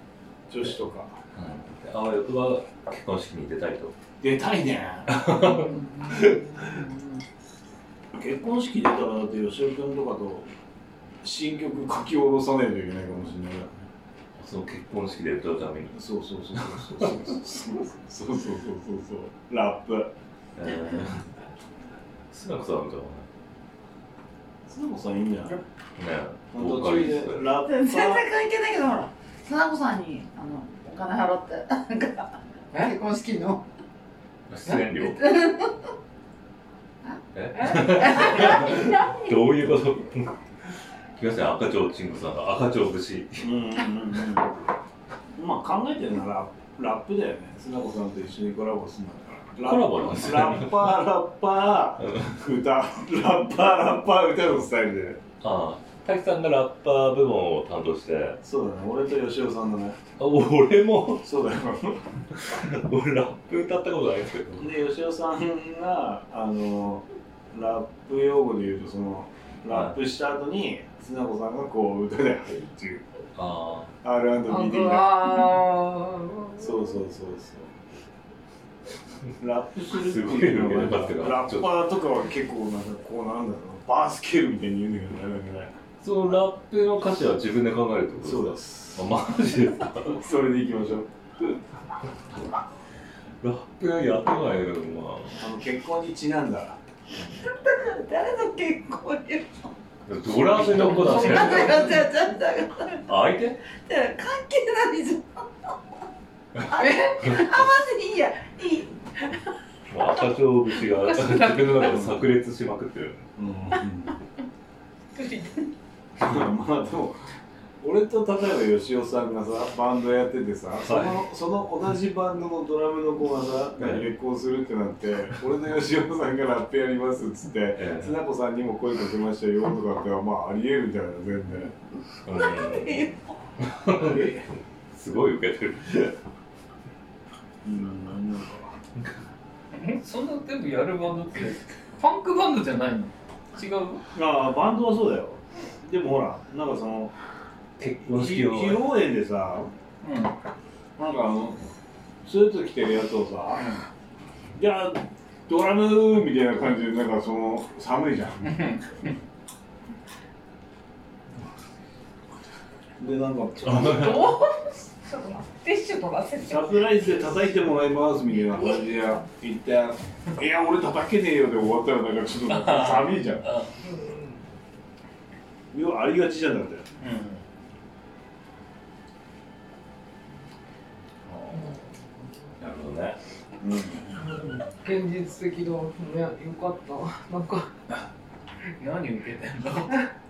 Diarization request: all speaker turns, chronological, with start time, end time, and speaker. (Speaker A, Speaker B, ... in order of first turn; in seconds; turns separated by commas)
Speaker A: 0.5-1.2, Speaker B: 1.3-3.9, Speaker A: 4.2-5.2, Speaker B: 5.1-6.4, Speaker C: 5.4-6.9, Speaker A: 8.1-10.5, Speaker A: 11.2-13.8, Speaker B: 14.4-16.0, Speaker A: 15.9-20.1, Speaker B: 16.6-17.1, Speaker B: 20.6-21.3, Speaker B: 22.3-23.2, Speaker A: 24.6-25.6, Speaker B: 26.0-27.4, Speaker A: 26.5-28.3, Speaker C: 27.6-33.6, Speaker B: 34.5-35.2, Speaker C: 34.9-35.7, Speaker C: 37.0-39.3, Speaker B: 37.3-40.3, Speaker B: 41.2-43.5, Speaker A: 43.4-44.5, Speaker A: 45.3-55.2, Speaker B: 49.6-50.9, Speaker B: 52.1-52.3, Speaker B: 55.4-58.4, Speaker A: 58.4-60.0, Speaker B: 60.2-61.2, Speaker A: 61.2-62.0, Speaker B: 62.3-64.7, Speaker A: 64.6-73.0, Speaker B: 73.3-73.9, Speaker A: 74.0-75.2, Speaker D: 74.5-77.0, Speaker A: 76.6-77.7, Speaker A: 79.4-85.8, Speaker B: 79.9-81.7, Speaker B: 86.0-90.2, Speaker A: 88.2-89.1, Speaker A: 90.0-91.1, Speaker B: 93.4-95.4, Speaker A: 95.4-96.8, Speaker C: 97.3-99.6, Speaker B: 100.1-102.0, Speaker D: 100.6-101.9, Speaker C: 100.8-103.1, Speaker B: 103.1-103.6, Speaker C: 103.8-105.7, Speaker C: 106.6-109.3, Speaker D: 106.7-107.3, Speaker B: 109.9-113.2, Speaker D: 111.0-111.8, Speaker A: 111.8-112.2, Speaker A: 113.4-114.1, Speaker D: 115.2-115.5, Speaker A: 116.2-117.1, Speaker A: 117.8-131.7, Speaker B: 120.8-121.2, Speaker B: 123.8-124.0, Speaker B: 127.8-128.1, Speaker B: 132.2-133.0, Speaker C: 132.2-133.4, Speaker B: 133.7-134.2, Speaker A: 133.9-134.5, Speaker B: 134.9-136.1, Speaker A: 137.6-138.7, Speaker E: 139.8-144.0, Speaker A: 144.1-147.1, Speaker B: 147.8-148.8, Speaker A: 148.1-149.7, Speaker E: 150.0-150.3, Speaker A: 151.0-151.6, Speaker A: 152.2-153.6, Speaker A: 154.6-158.5, Speaker E: 158.5-159.0, Speaker A: 163.0-164.3, Speaker B: 163.6-164.3, Speaker D: 163.7-166.9, Speaker A: 166.4-173.4, Speaker E: 172.6-173.7, Speaker D: 173.8-174.2, Speaker A: 175.7-176.9, Speaker E: 177.0-177.4, Speaker B: 182.6-183.2, Speaker A: 183.6-184.2, Speaker D: 184.2-187.7, Speaker E: 188.8-190.0